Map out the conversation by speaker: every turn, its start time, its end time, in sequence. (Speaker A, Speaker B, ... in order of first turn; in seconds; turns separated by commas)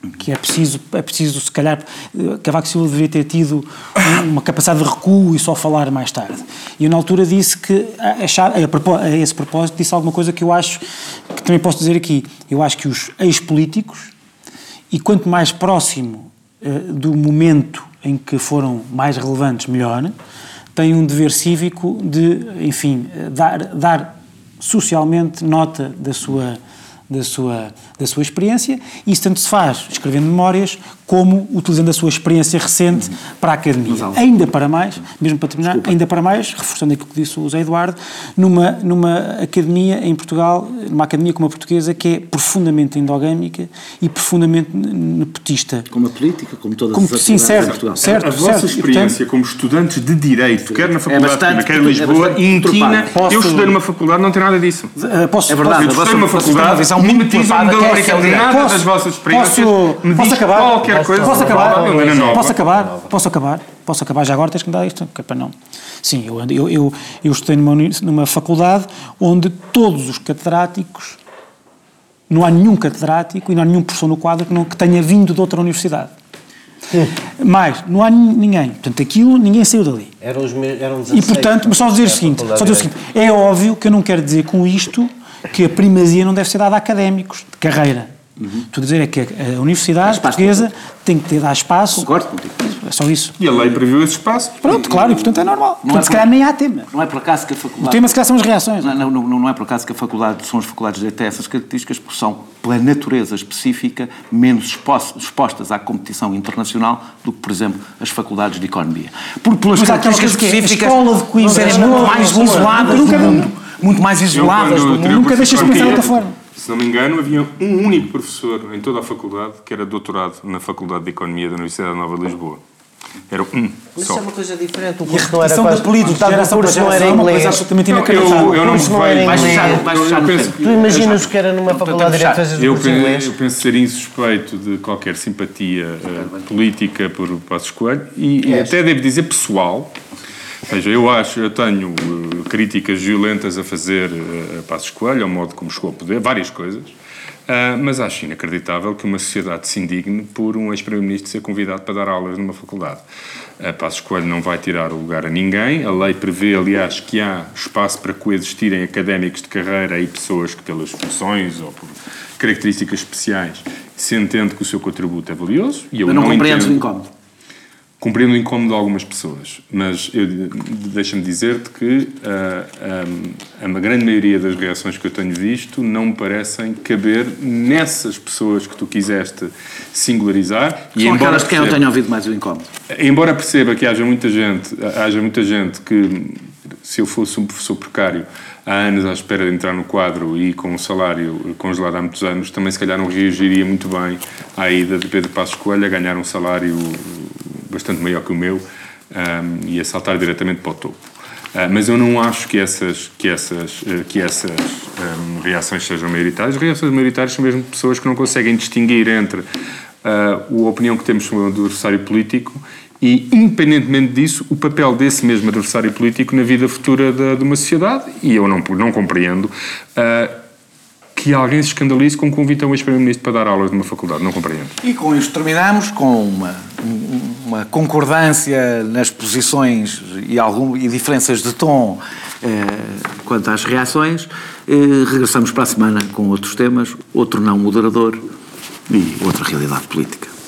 Speaker A: 0.2-10.8, Speaker A: 11.3-14.1, Speaker A: 14.9-20.1, Speaker A: 20.7-26.6, Speaker A: 27.1-45.9, Speaker B: 33.9-34.2, Speaker B: 35.6-36.0, Speaker B: 45.9-48.1, Speaker A: 46.9-49.2, Speaker C: 48.0-54.9, Speaker B: 50.6-53.1, Speaker A: 53.1-53.7, Speaker A: 54.9-55.9, Speaker B: 55.5-58.6, Speaker C: 55.7-62.6, Speaker A: 58.5-71.2, Speaker D: 60.8-63.1, Speaker A: 72.3-76.1, Speaker A: 77.4-80.1, Speaker D: 80.2-82.9, Speaker A: 81.1-88.1, Speaker A: 88.7-92.1, Speaker B: 90.0-90.7, Speaker B: 91.9-92.7, Speaker A: 92.6-93.4, Speaker C: 93.4-94.8, Speaker A: 94.6-96.9, Speaker B: 94.7-95.2, Speaker B: 95.8-96.3, Speaker B: 96.9-98.2, Speaker A: 97.8-98.9, Speaker B: 98.8-116.1, Speaker A: 109.8-113.5, Speaker C: 114.3-122.6, Speaker A: 115.1-116.3, Speaker C: 123.3-124.2, Speaker D: 124.0-129.8, Speaker A: 125.1-128.9, Speaker C: 127.9-131.2, Speaker B: 129.2-132.5, Speaker D: 130.5-133.3, Speaker C: 132.5-139.9, Speaker D: 138.4-138.8, Speaker C: 140.7-146.9, Speaker C: 147.5-153.0, Speaker C: 153.6-166.8, Speaker B: 166.1-167.1, Speaker C: 168.0-181.8, Speaker B: 180.9-182.7, Speaker C: 182.9-201.0, Speaker C: 201.5-209.4, Speaker C: 210.0-220.3, Speaker C: 221.1-224.7, Speaker B: 224.8-238.2, Speaker B: 238.9-240.3